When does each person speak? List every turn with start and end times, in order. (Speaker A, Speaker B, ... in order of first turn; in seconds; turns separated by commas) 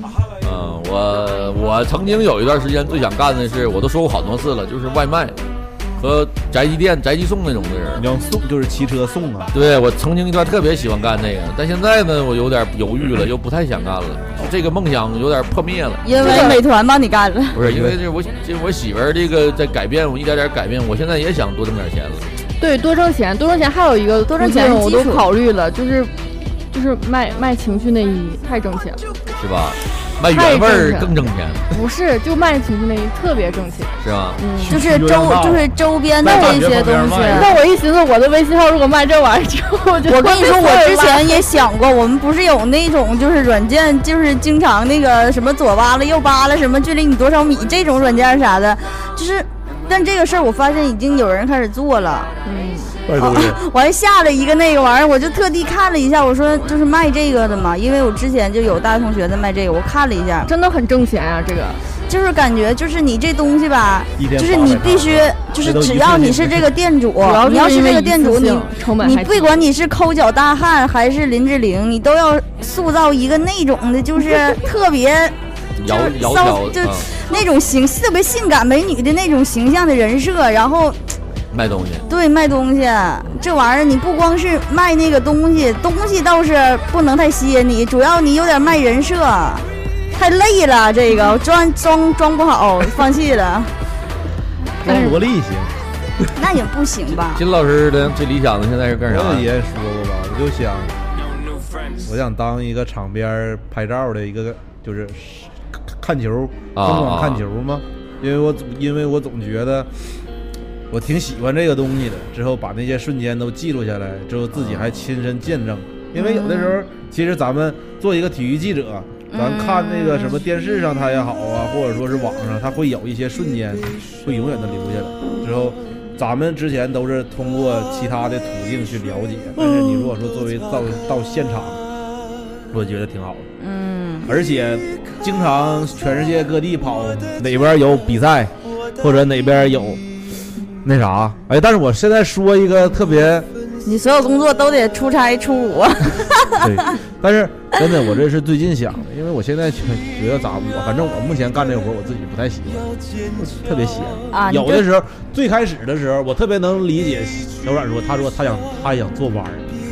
Speaker A: 0.4-5.3, Speaker A: 6.0-8.1, Speaker B: 8.0-9.5, Speaker A: 9.5-16.6, Speaker C: 16.0-17.6, Speaker D: 16.2-16.6, Speaker A: 17.5-22.2, Speaker B: 17.6-18.0, Speaker D: 22.6-26.1, Speaker C: 24.3-25.2, Speaker D: 26.7-29.0, Speaker A: 29.4-31.7, Speaker D: 30.3-34.8, Speaker A: 34.0-34.4, Speaker B: 34.6-37.5, Speaker C: 34.7-37.5, Speaker D: 37.2-41.5, Speaker C: 40.0-52.3, Speaker D: 52.4-53.0, Speaker B: 53.0-53.6, Speaker C: 53.1-60.5, Speaker D: 60.5-61.8, Speaker C: 62.1-81.0, Speaker B: 64.2-66.7, Speaker D: 67.2-69.6, Speaker A: 75.8-77.1, Speaker A: 81.5-82.0, Speaker C: 82.1-93.7, Speaker B: 94.8-95.7, Speaker C: 96.3-97.4, Speaker A: 97.3-99.5, Speaker B: 99.1-100.9, Speaker B: 102.0-109.9, Speaker A: 106.8-107.4, Speaker B: 110.9-131.8, Speaker A: 114.5-115.0, Speaker C: 116.2-116.8, Speaker C: 119.3-120.4, Speaker B: 132.7-133.5, Speaker C: 133.6-134.3, Speaker B: 134.3-140.0, Speaker B: 140.8-143.5, Speaker C: 143.8-146.7, Speaker B: 146.6-159.7, Speaker C: 154.3-154.9